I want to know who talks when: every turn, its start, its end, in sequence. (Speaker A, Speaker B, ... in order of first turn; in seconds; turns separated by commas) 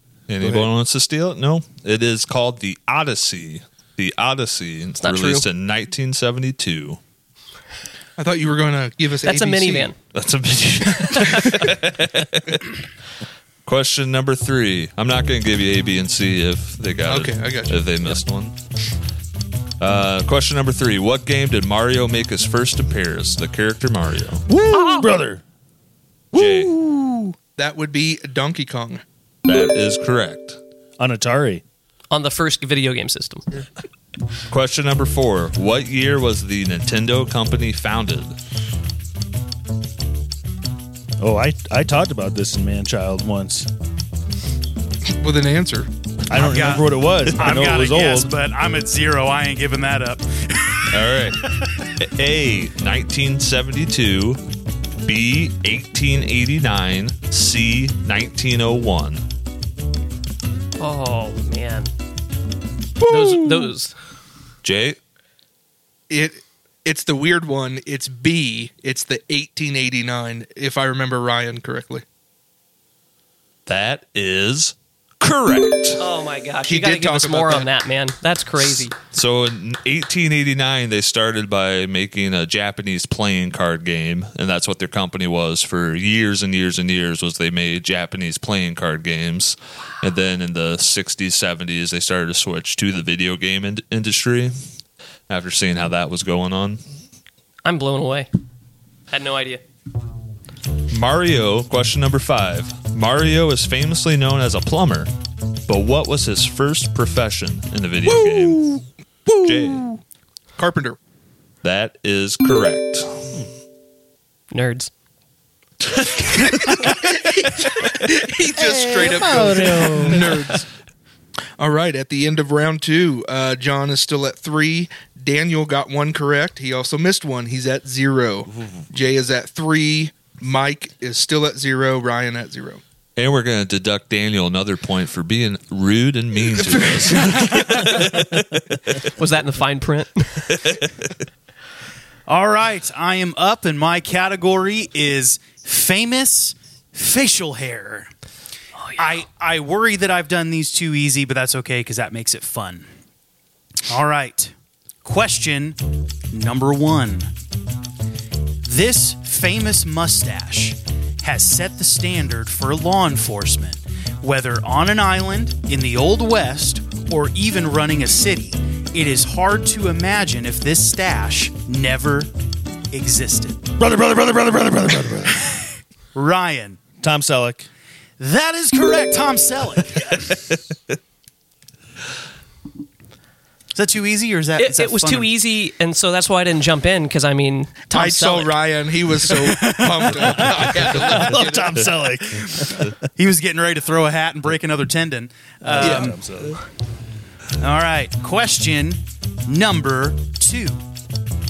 Speaker A: 0.3-7.0, Speaker B: 0.4-0.7, Speaker C: 5.0-5.5, Speaker D: 8.2-9.9, Speaker C: 9.2-9.9, Speaker A: 10.1-12.7, Speaker C: 11.1-11.5, Speaker A: 13.7-18.5, Speaker D: 17.1-17.8, Speaker A: 19.8-24.4, Speaker B: 24.5-25.4, Speaker C: 24.7-25.1, Speaker A: 26.3-26.8, Speaker D: 27.6-29.0, Speaker A: 29.4-30.6, Speaker B: 31.0-31.6, Speaker C: 32.1-33.4, Speaker A: 34.5-38.3, Speaker B: 41.2-43.7, Speaker D: 45.2-45.9, Speaker B: 46.3-48.3, Speaker E: 46.3-51.3, Speaker A: 50.9-51.5, Speaker A: 52.0-54.4, Speaker A: 55.0-59.2, Speaker C: 60.8-61.9, Speaker D: 63.0-63.5, Speaker C: 63.0-63.9, Speaker A: 64.6-65.0, Speaker D: 66.1-72.0, Speaker A: 73.7-76.0, Speaker C: 76.0-78.9, Speaker D: 76.7-77.7, Speaker A: 78.8-94.5, Speaker A: 95.3-96.8, Speaker C: 97.6-98.3, Speaker C: 99.1-99.6, Speaker A: 100.9-105.1, Speaker A: 105.7-108.8, Speaker D: 108.0-110.0, Speaker A: 109.4-109.9, Speaker D: 110.6-111.0, Speaker A: 111.6-113.4, Speaker C: 114.5-114.9, Speaker D: 116.5-120.7, Speaker B: 118.5-120.4, Speaker D: 121.6-132.8, Speaker A: 133.2-138.6, Speaker D: 136.5-137.9, Speaker C: 139.1-140.6, Speaker A: 140.6-140.9, Speaker E: 142.3-148.1, Speaker C: 148.8-149.1, Speaker E: 149.0-152.9, Speaker E: 153.9-155.8, Speaker E: 156.3-157.3, Speaker E: 158.6-172.3, Speaker E: 172.9-173.7, Speaker B: 173.8-175.6, Speaker E: 176.1-176.8, Speaker B: 177.0-177.7, Speaker E: 178.2-180.3, Speaker E: 183.7-185.3, Speaker C: 184.6-188.6, Speaker D: 187.9-191.8, Speaker E: 189.4-190.1, Speaker B: 190.2-192.9, Speaker E: 192.6-196.2, Speaker B: 195.6-196.6, Speaker D: 195.8-196.1, Speaker E: 197.6-200.8